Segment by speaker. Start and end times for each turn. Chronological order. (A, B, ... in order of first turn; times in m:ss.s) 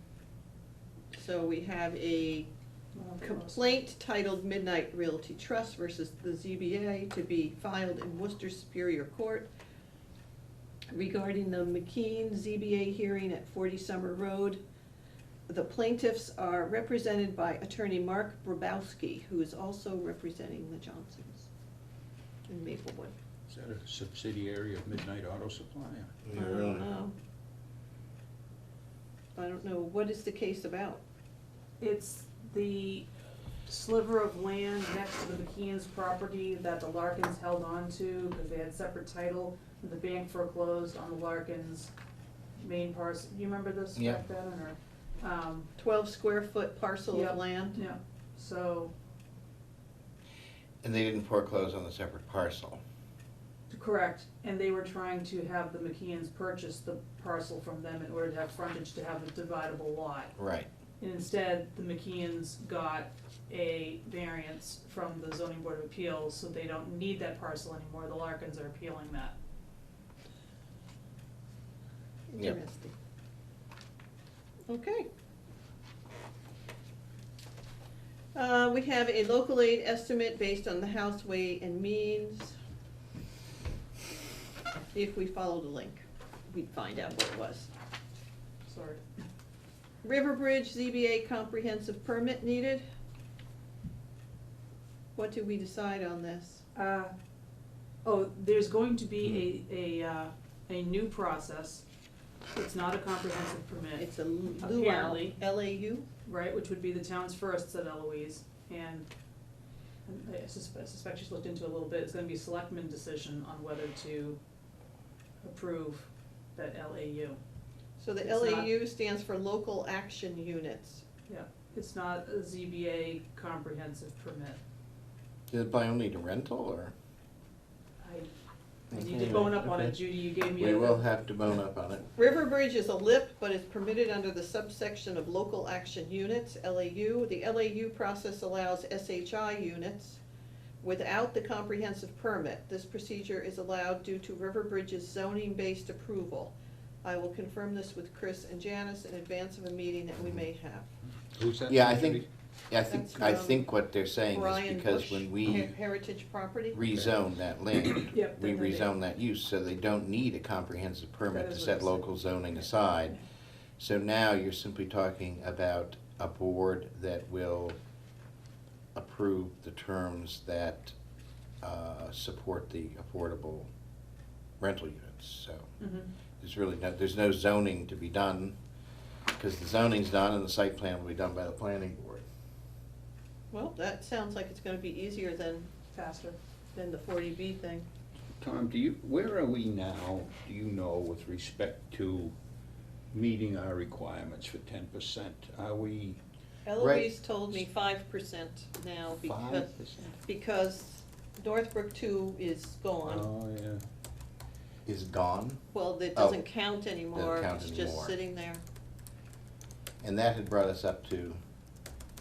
0:01.1-0:02.5 A
0:02.9-0:03.6 B
0:03.2-0:09.5 A
0:10.9-0:14.6 A
0:15.5-0:21.5 A
0:22.5-0:23.1 A
0:23.5-0:26.1 C
0:26.2-0:26.9 D
0:26.3-0:27.1 A
0:29.4-0:31.0 A
0:31.8-0:33.0 B
0:33.7-0:41.9 B
0:42.6-0:45.7 B
0:44.0-0:44.2 D
0:45.8-0:47.8 A
0:47.1-0:48.9 B
0:50.8-0:52.8 D
0:53.7-1:00.3 B
1:00.4-1:00.7 D
1:01.0-1:09.3 B
1:12.3-1:12.9 A
1:14.7-1:15.1 A
1:18.3-1:22.6 A
1:24.9-1:27.7 A
1:28.6-1:29.0 B
1:30.0-1:32.8 A
1:35.1-1:36.6 A
1:36.7-1:37.1 B
1:38.0-1:41.8 B
1:42.5-1:44.1 B
1:44.0-1:46.1 A
1:44.6-1:45.4 B
1:46.2-1:49.1 B
1:50.0-1:54.4 B
1:55.4-1:57.4 B
1:58.0-2:01.0 A
1:58.2-1:58.7 B
2:01.3-2:04.6 B
2:05.5-2:06.9 D
2:08.0-2:08.3 B
2:08.9-2:09.8 D
2:08.9-2:11.0 B
2:10.5-2:12.1 D
2:12.2-2:20.2 A
2:20.8-2:30.9 A
2:31.3-2:32.2 C
2:31.7-2:35.7 D
2:32.9-2:33.7 A
2:34.3-2:36.8 A
2:36.7-2:43.2 D
2:38.1-2:38.9 B
2:41.3-2:42.5 B
2:43.8-2:47.8 D
2:48.9-2:50.9 D
2:51.6-2:53.7 D
2:54.6-2:55.7 D
2:55.8-2:56.1 B
2:56.4-2:58.5 D
2:59.3-3:02.2 D
3:03.5-3:05.7 A
3:05.9-3:06.4 B
3:06.7-3:07.9 A
3:08.4-3:12.3 C
3:13.1-3:16.2 C
3:16.6-3:23.2 A
3:16.8-3:17.1 D
3:19.3-3:20.1 C
3:23.0-3:23.8 C
3:24.8-3:25.6 D
3:25.7-3:28.6 A
3:26.1-3:26.4 D
3:27.1-3:28.1 D
3:30.0-3:31.4 D